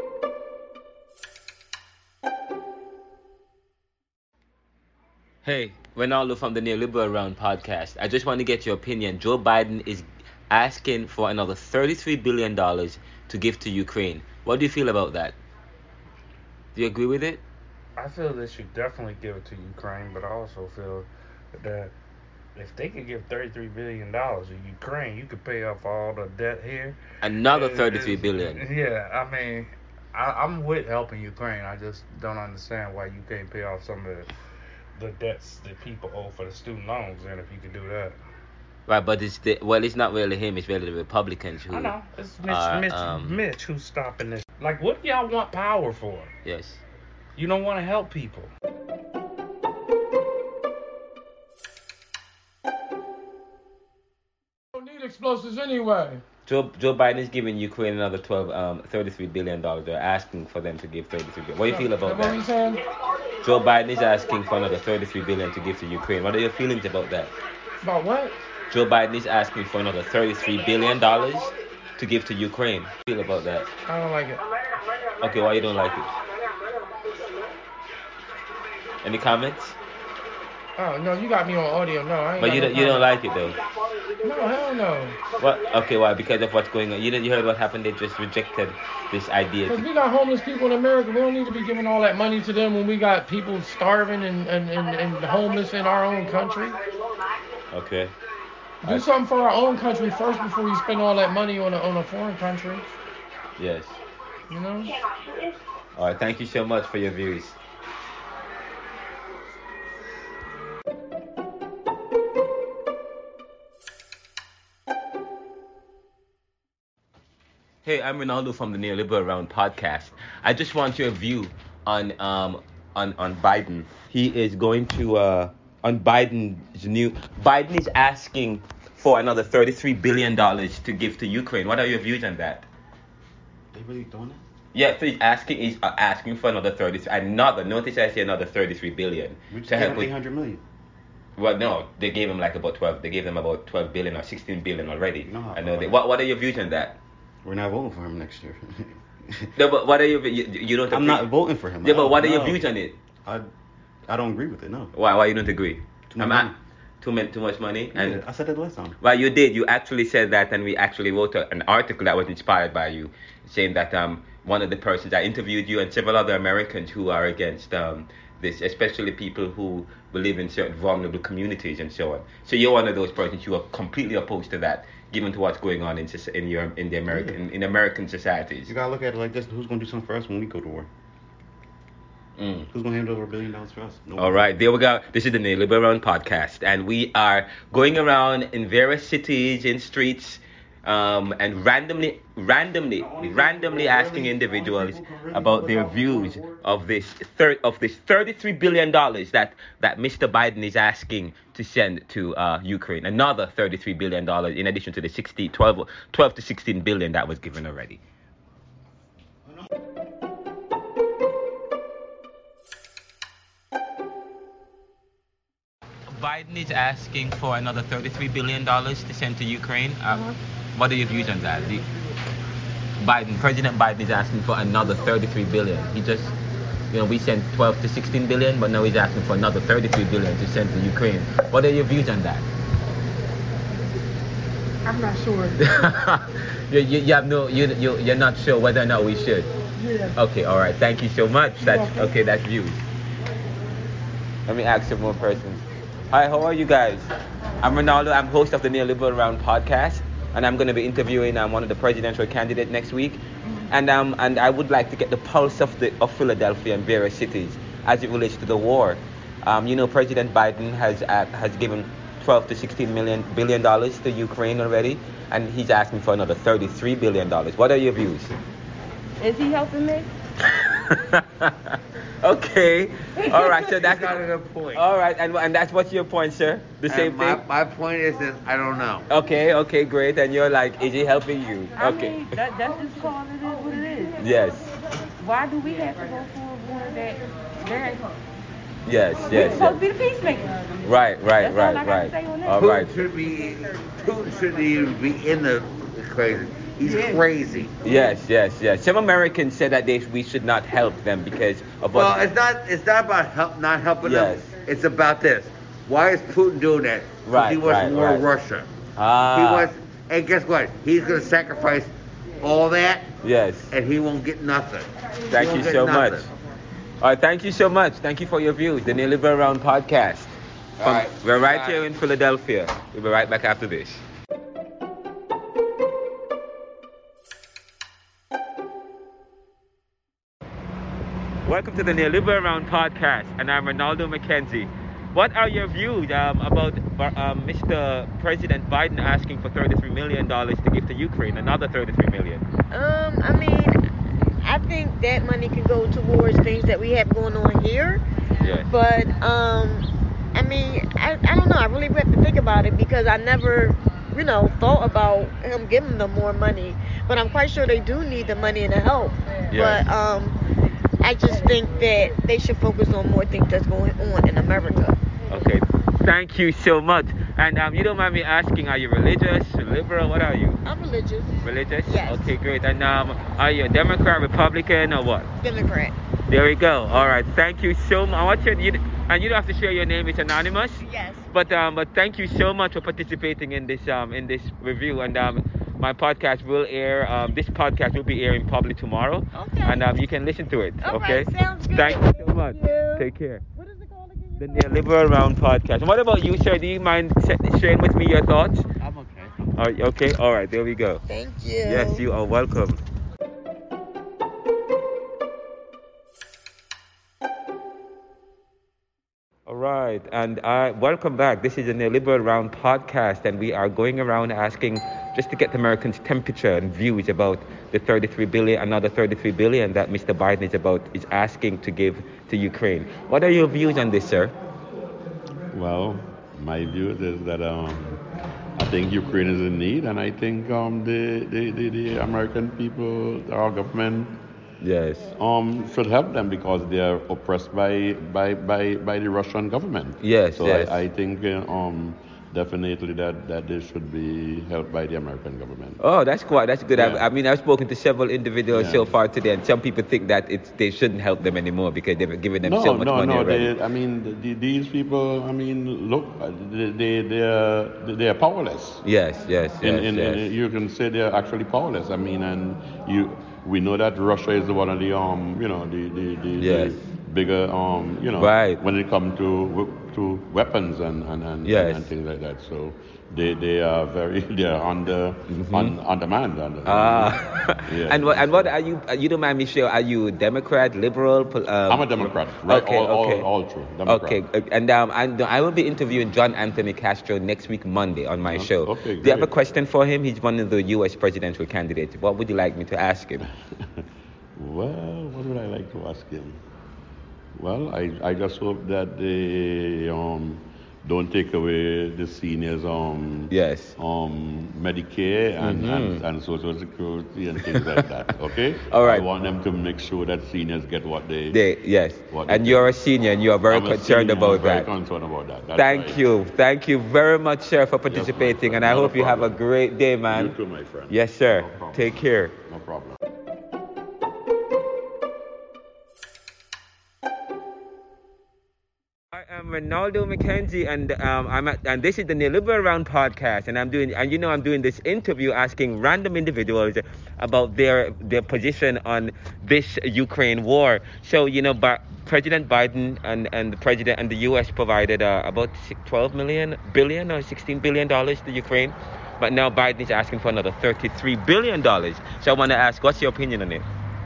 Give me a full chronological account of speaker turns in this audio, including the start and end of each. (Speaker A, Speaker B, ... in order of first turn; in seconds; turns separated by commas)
Speaker A: 5.4-15.4, Speaker A: 16.8-17.4, Speaker B: 18.0-21.9, Speaker B: 22.6-34.3, Speaker A: 27.2-28.6, Speaker B: 35.0-38.2, Speaker A: 38.9-41.9, Speaker B: 41.7-46.3, Speaker A: 42.5-43.4, Speaker A: 46.4-46.8, Speaker B: 47.4-48.5, Speaker C: 54.7-56.2, Speaker A: 56.5-62.5, Speaker C: 61.7-62.8, Speaker A: 63.4-67.3, Speaker C: 67.8-68.4, Speaker A: 68.7-73.7, Speaker C: 73.9-74.4, Speaker A: 75.2-76.1, Speaker A: 79.0-79.8, Speaker C: 80.8-83.1, Speaker A: 82.4-83.6, Speaker C: 84.2-85.2, Speaker A: 85.4-89.9, Speaker C: 89.7-96.8, Speaker A: 97.7-98.1, Speaker C: 98.8-102.8, Speaker A: 103.6-104.0, Speaker C: 104.5-104.9, Speaker A: 106.0-107.6, Speaker A: 117.8-132.7, Speaker D: 133.7-134.4, Speaker A: 134.7-140.1, Speaker D: 139.5-140.6, Speaker A: 141.4-147.0, Speaker D: 145.2-146.0, Speaker D: 147.4-149.5, Speaker A: 149.6-151.3, Speaker D: 150.9-152.6, Speaker A: 151.8-152.9, Speaker D: 154.1-154.9, Speaker A: 154.9-156.5, Speaker D: 156.1-156.6, Speaker A: 157.0-158.2, Speaker D: 157.9-159.0, Speaker A: 159.0-178.7, Speaker D: 177.1-177.4, Speaker D: 178.7-180.9, Speaker A: 182.4-182.7, Speaker D: 182.7-184.4, Speaker A: 184.2-208.0, Speaker D: 192.9-196.6, Speaker A: 216.1-221.9, Speaker A: 223.0-226.3, Speaker A: 226.9-232.4, Speaker E: 234.9-235.5, Speaker A: 235.6-239.5, Speaker A: 240.1-242.8, Speaker C: 241.6-242.0, Speaker A: 244.5-268.3, Speaker F: 269.2-270.1, Speaker A: 270.5-274.2, Speaker F: 273.2-273.6, Speaker G: 273.7-274.9, Speaker A: 274.8-277.4, Speaker G: 276.9-279.1, Speaker A: 279.1-282.4, Speaker F: 281.8-284.2, Speaker A: 284.2-284.7, Speaker F: 285.2-288.1, Speaker A: 288.9-289.8, Speaker F: 289.3-290.7, Speaker A: 290.8-292.9, Speaker F: 291.3-292.8, Speaker G: 292.6-297.7, Speaker F: 296.9-297.2, Speaker A: 297.8-302.3, Speaker G: 301.9-308.7, Speaker A: 304.0-304.5, Speaker A: 307.3-308.3, Speaker A: 309.0-309.7, Speaker G: 309.3-313.1, Speaker A: 313.2-313.7, Speaker G: 313.7-316.3, Speaker A: 315.3-316.3, Speaker A: 317.0-324.0, Speaker G: 320.8-321.8, Speaker A: 331.4-342.4, Speaker E: 342.7-343.8, Speaker E: 344.4-348.0, Speaker A: 348.4-348.7, Speaker E: 348.7-360.4, Speaker A: 359.5-359.9, Speaker E: 361.0-365.0, Speaker A: 365.3-370.6, Speaker E: 370.6-372.3, Speaker A: 371.4-375.3, Speaker E: 375.4-375.9, Speaker A: 376.3-393.4, Speaker E: 380.8-381.3, Speaker E: 389.3-389.9, Speaker E: 390.8-395.0, Speaker A: 394.4-398.7, Speaker A: 399.6-401.0, Speaker E: 401.1-402.1, Speaker A: 401.6-402.8, Speaker A: 409.5-424.3, Speaker H: 425.5-428.0, Speaker H: 428.6-434.2, Speaker A: 434.6-435.1, Speaker H: 435.2-445.8, Speaker A: 440.0-440.8, Speaker A: 445.8-453.5, Speaker H: 446.7-447.1, Speaker H: 448.5-449.0, Speaker H: 452.4-458.8, Speaker A: 458.8-460.3, Speaker H: 459.6-478.5, Speaker A: 466.4-466.8, Speaker A: 468.2-468.6, Speaker A: 471.4-471.9, Speaker A: 475.3-475.8, Speaker A: 476.6-483.3, Speaker H: 481.7-484.2, Speaker A: 483.9-493.3, Speaker H: 488.2-489.3, Speaker H: 493.2-496.4, Speaker H: 497.4-511.4, Speaker A: 503.3-503.8, Speaker A: 505.4-506.0, Speaker A: 507.6-507.8, Speaker A: 508.7-509.1, Speaker A: 511.3-514.7, Speaker H: 512.1-512.7, Speaker H: 513.5-516.0, Speaker A: 515.5-520.4, Speaker H: 517.9-519.4, Speaker H: 520.1-523.0, Speaker A: 520.9-522.3, Speaker A: 529.1-553.6